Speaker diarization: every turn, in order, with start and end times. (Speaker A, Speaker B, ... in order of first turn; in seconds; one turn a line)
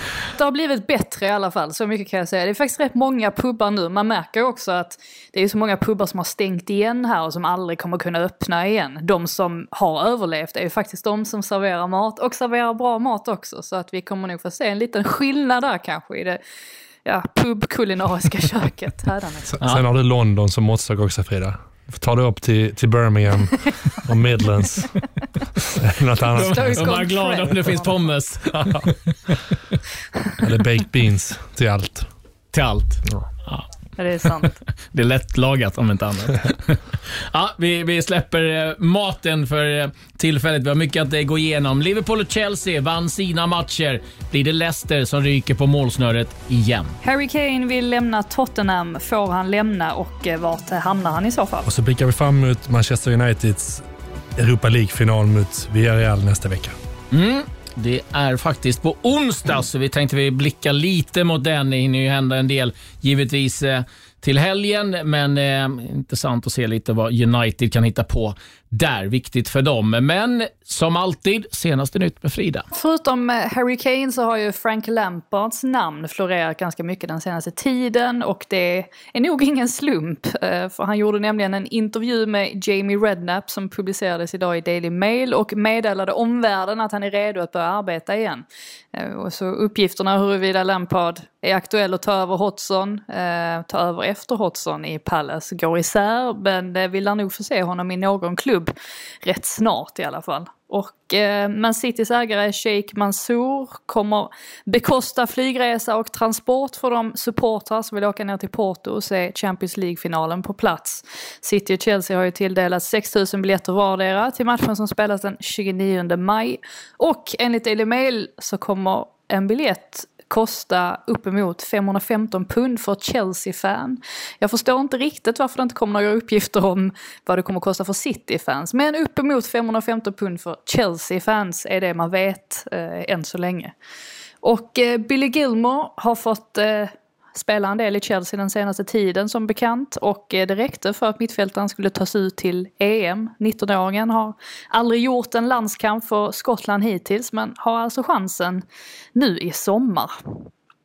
Speaker A: 0.4-16.4
Speaker A: 17.0-19.5
Speaker B: 19.5-24.9
Speaker B: 25.8-26.9
Speaker C: 26.3-29.5
Speaker A: 26.7-27.3
Speaker B: 30.4-32.1
Speaker C: 32.5-33.6
Speaker A: 34.0-34.5
Speaker C: 34.9-46.9
Speaker A: 47.0-51.6
Speaker B: 51.6-53.8
Speaker B: 54.4-56.7
Speaker C: 57.1-72.6
Speaker A: 72.7-133.7
Speaker A: 134.4-150.1